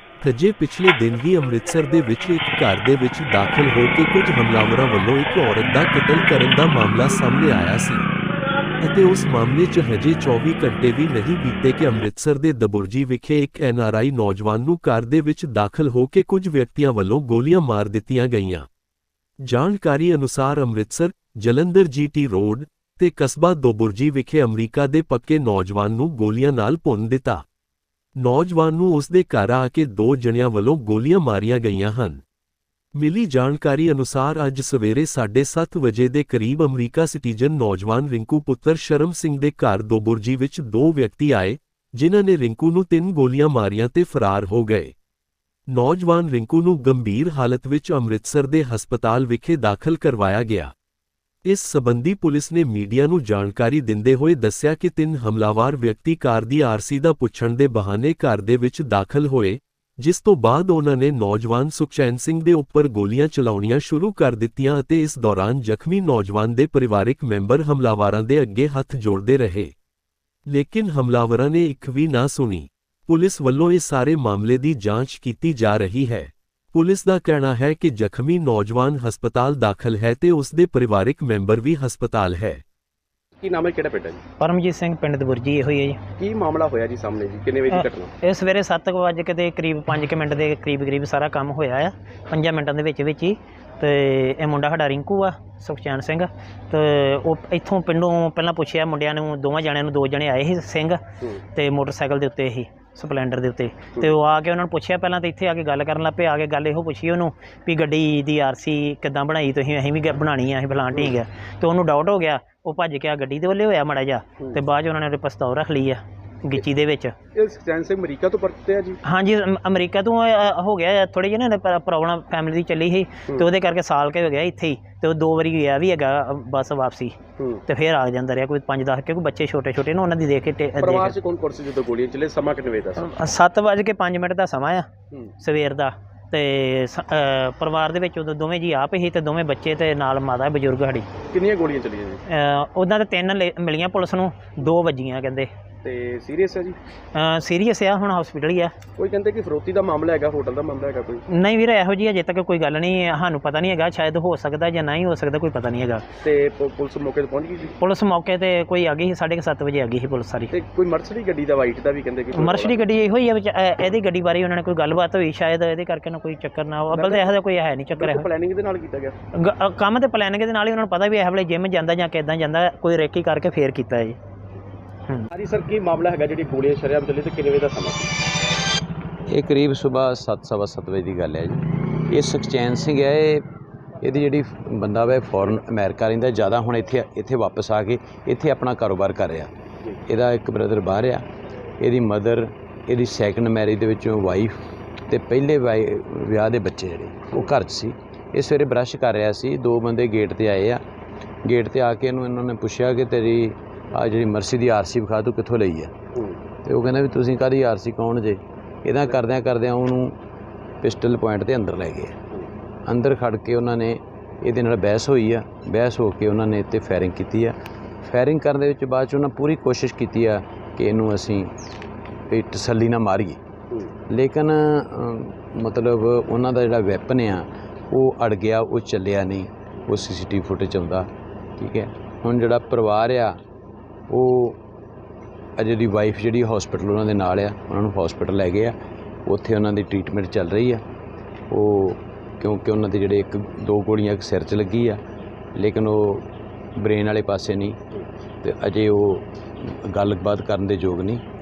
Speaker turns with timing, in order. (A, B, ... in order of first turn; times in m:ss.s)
0:00.2-0:08.1 A
0:08.8-0:18.7 A
0:19.4-0:27.4 A
0:28.2-0:32.2 A
0:32.9-0:44.9 A
0:45.7-0:50.7 A
0:51.4-1:09.7 A
1:10.5-1:22.6 A
1:23.4-1:24.2 B
1:24.4-1:26.0 C
1:26.2-1:28.1 B
1:27.7-1:57.1 C
1:57.3-1:59.0 B
1:59.0-2:11.1 C
2:07.4-2:07.6 B
2:10.8-2:13.1 B
2:13.0-2:14.9 C
2:15.4-2:21.1 C
2:21.3-2:22.2 B
2:22.3-2:25.5 C
2:25.8-2:26.8 B
2:27.1-2:28.8 C
2:29.0-2:31.2 B
2:31.3-2:36.0 C
2:36.2-2:37.8 B
2:37.8-2:40.5 C
2:40.5-2:42.8 B
2:42.3-2:48.3 C
2:46.9-2:47.3 B
2:47.9-2:49.2 B
2:49.3-2:54.2 C
2:55.3-2:58.1 B
2:59.3-3:03.4 D
3:04.0-3:09.5 D
3:10.0-3:11.2 D
3:11.8-3:20.8 D
3:21.4-3:25.9 D
3:26.1-3:26.4 B
3:26.6-3:30.2 D
3:30.8-3:32.2 D
3:32.8-3:41.5 D
3:42.3-3:43.4 D
3:44.1-3:53.4 D
3:54.1-3:54.6 D
3:55.6-3:58.8 D
3:59.2-4:00.8 D
4:01.5-4:05.0 D
4:05.6-4:07.8 D
4:08.4-4:11.2 D